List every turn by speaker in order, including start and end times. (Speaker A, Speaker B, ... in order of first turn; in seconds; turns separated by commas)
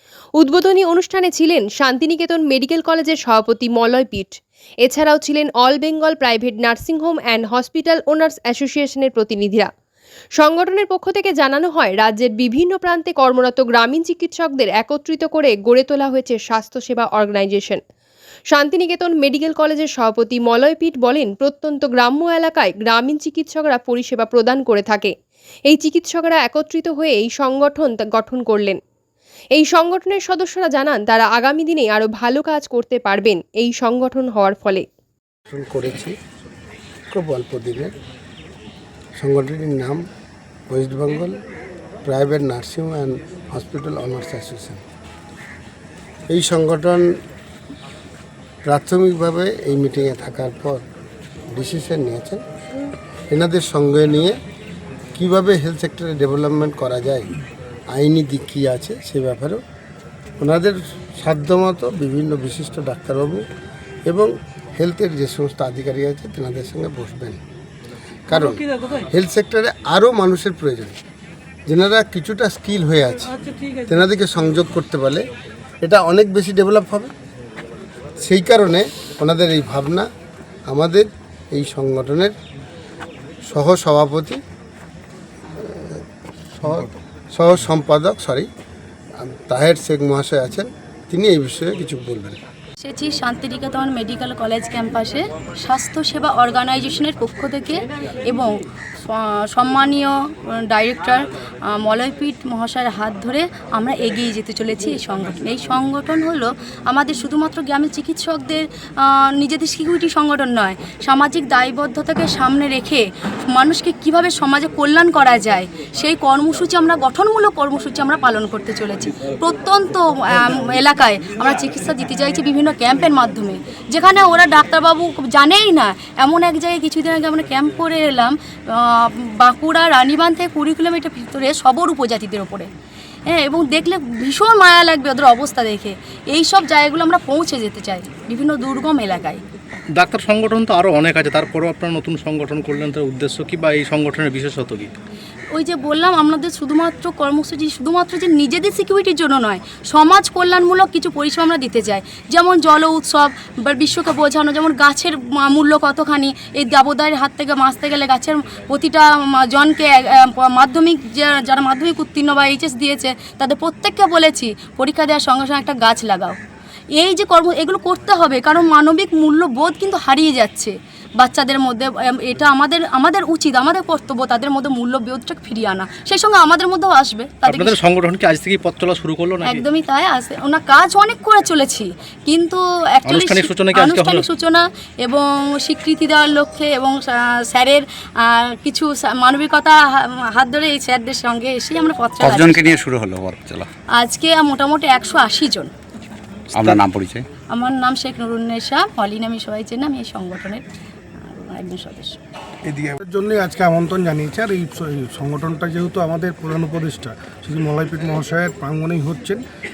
Speaker A: 0.4-9.7, Speaker A: 10.4-17.8, Speaker A: 18.5-25.1, Speaker A: 25.7-28.8, Speaker A: 29.6-34.9, Speaker B: 35.5-36.1, Speaker B: 37.1-37.9, Speaker B: 39.2-40.0, Speaker B: 40.7-41.4, Speaker B: 42.0-44.8, Speaker B: 46.3-47.1, Speaker B: 48.7-50.8, Speaker B: 51.5-52.4, Speaker B: 53.3-54.4, Speaker B: 55.2-57.3, Speaker B: 57.9-59.6, Speaker B: 60.4-63.4, Speaker B: 64.1-67.4, Speaker B: 68.3-71.0, Speaker B: 71.7-73.3, Speaker B: 73.8-75.2, Speaker B: 75.8-77.1, Speaker B: 78.2-80.1, Speaker B: 80.7-82.3, Speaker B: 83.5-84.4, Speaker B: 85.6-86.0, Speaker B: 86.6-88.5, Speaker B: 89.2-92.4, Speaker C: 92.8-132.7, Speaker C: 133.3-139.4, Speaker D: 140.0-144.9, Speaker C: 145.5-166.4, Speaker C: 167.0-177.8, Speaker D: 177.5-179.6, Speaker C: 179.4-192.7, Speaker D: 183.1-184.3, Speaker E: 192.2-193.7, Speaker C: 194.0-195.7, Speaker E: 196.5-197.3, Speaker C: 197.5-200.6, Speaker C: 201.2-202.2, Speaker F: 202.7-209.4